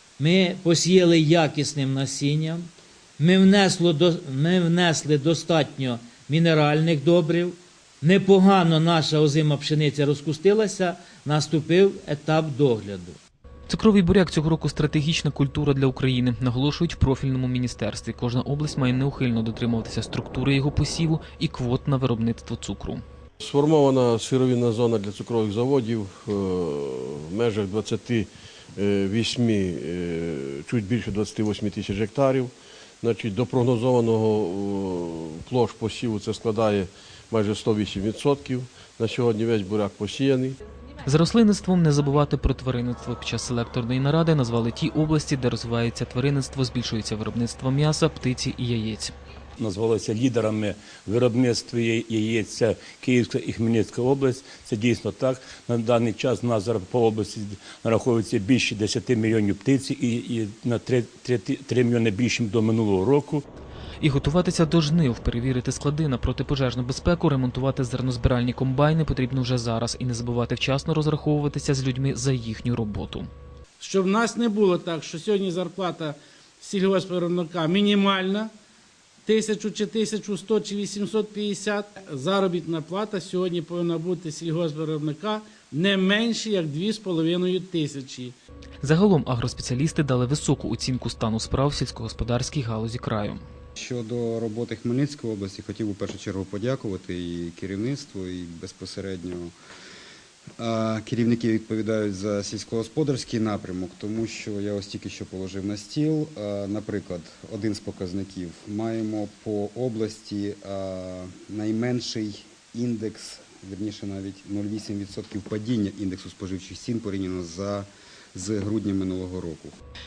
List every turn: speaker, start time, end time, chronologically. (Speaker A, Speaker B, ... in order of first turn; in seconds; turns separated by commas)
Speaker A: 0.2-13.2, Speaker B: 13.7-23.0, Speaker C: 23.4-40.6, Speaker B: 41.0-49.1, Speaker D: 49.6-63.5, Speaker B: 64.0-73.3, Speaker E: 73.8-78.5, Speaker E: 79.3-88.4, Speaker B: 88.8-93.4, Speaker F: 93.8-99.5, Speaker F: 100.6-119.8